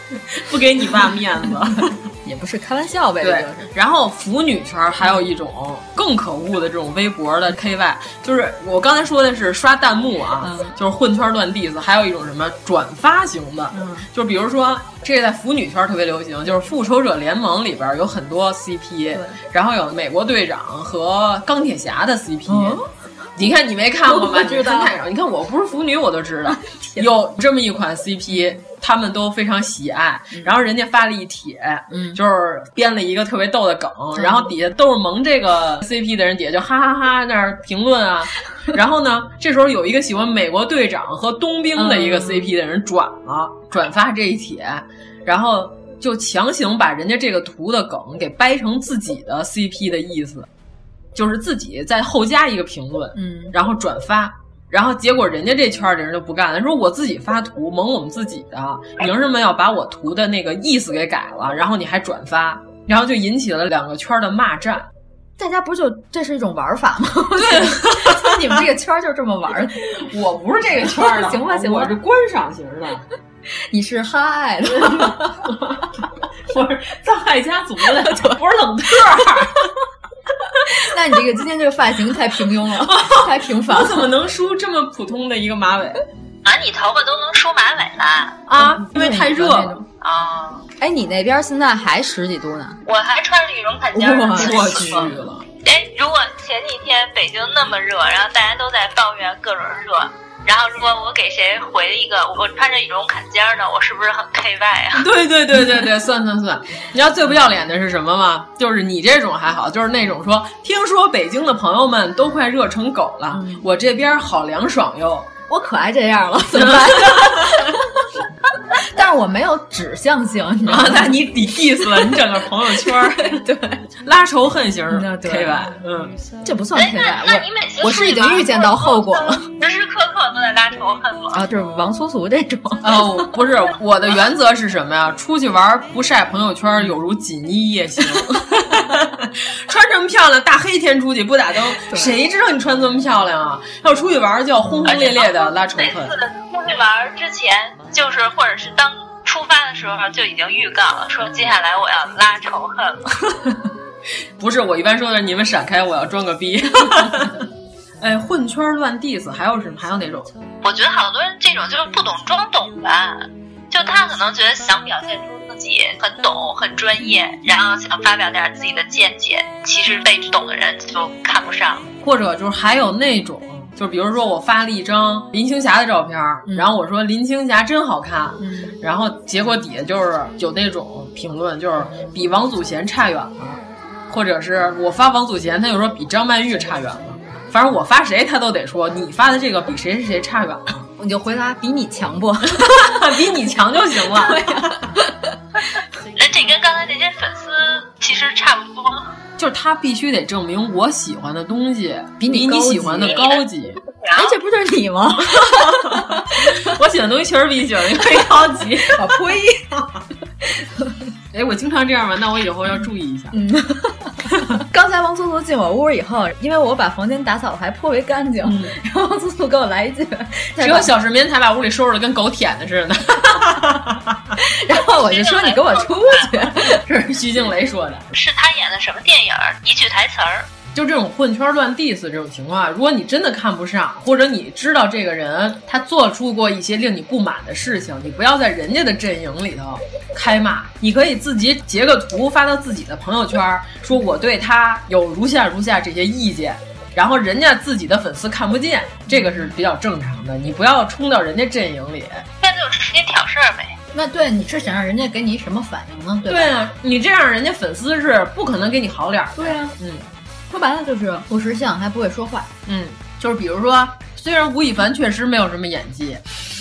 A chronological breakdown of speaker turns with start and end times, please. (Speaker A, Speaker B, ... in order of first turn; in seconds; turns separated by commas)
Speaker A: 0.3-1.9, Speaker B: 2.2-3.7, Speaker A: 3.2-22.8, Speaker B: 10.4-10.8, Speaker B: 13.7-14.1, Speaker B: 19.1-19.4, Speaker B: 22.5-22.9, Speaker A: 23.4-50.5, Speaker B: 24.1-24.9, Speaker B: 26.6-27.1, Speaker B: 30.3-30.6, Speaker B: 31.9-32.2, Speaker B: 34.1-34.5, Speaker B: 41.8-42.5, Speaker A: 51.1-64.9, Speaker B: 53.1-53.5, Speaker B: 65.4-69.9, Speaker A: 67.4-68.5, Speaker A: 69.9-73.0, Speaker B: 70.9-71.9, Speaker B: 73.7-75.4, Speaker A: 74.8-75.9, Speaker A: 76.5-79.7, Speaker B: 78.1-78.3, Speaker B: 80.7-84.1, Speaker A: 82.8-86.0, Speaker C: 86.4-88.4, Speaker A: 88.5-89.8, Speaker B: 88.6-89.8, Speaker C: 90.0-90.6, Speaker B: 90.8-92.8, Speaker C: 92.9-95.0, Speaker B: 93.9-95.2, Speaker A: 94.4-95.4, Speaker C: 95.6-105.1, Speaker A: 104.9-115.3, Speaker B: 113.3-113.7, Speaker B: 115.5-117.8, Speaker A: 116.5-117.8, Speaker B: 118.8-121.2, Speaker A: 120.7-123.4, Speaker B: 122.8-123.8, Speaker A: 124.0-126.1, Speaker B: 124.9-125.7, Speaker B: 126.4-129.5, Speaker C: 126.7-131.4, Speaker B: 131.3-133.3, Speaker A: 132.8-146.1, Speaker B: 141.9-142.2, Speaker C: 144.8-153.1, Speaker A: 154.4-157.4, Speaker A: 158.0-160.3, Speaker C: 160.6-171.9, Speaker A: 172.0-190.8, Speaker B: 176.5-176.7, Speaker B: 178.4-178.8, Speaker B: 191.0-193.1, Speaker A: 192.6-194.4, Speaker B: 194.1-195.3, Speaker C: 196.1-199.1, Speaker A: 199.4-203.8, Speaker B: 202.2-203.2, Speaker C: 203.0-204.3, Speaker B: 204.1-206.7, Speaker A: 205.2-209.1, Speaker B: 208.9-210.9, Speaker A: 211.3-213.3, Speaker B: 213.3-220.9, Speaker A: 218.4-218.7, Speaker A: 220.6-224.2, Speaker B: 224.4-226.8, Speaker C: 224.9-226.3, Speaker A: 226.7-228.1, Speaker C: 228.1-230.5, Speaker A: 230.7-252.2, Speaker B: 249.1-249.5, Speaker C: 252.4-253.8, Speaker B: 253.9-256.5, Speaker A: 256.3-260.1, Speaker B: 259.4-259.7, Speaker B: 260.5-262.5, Speaker A: 262.6-266.3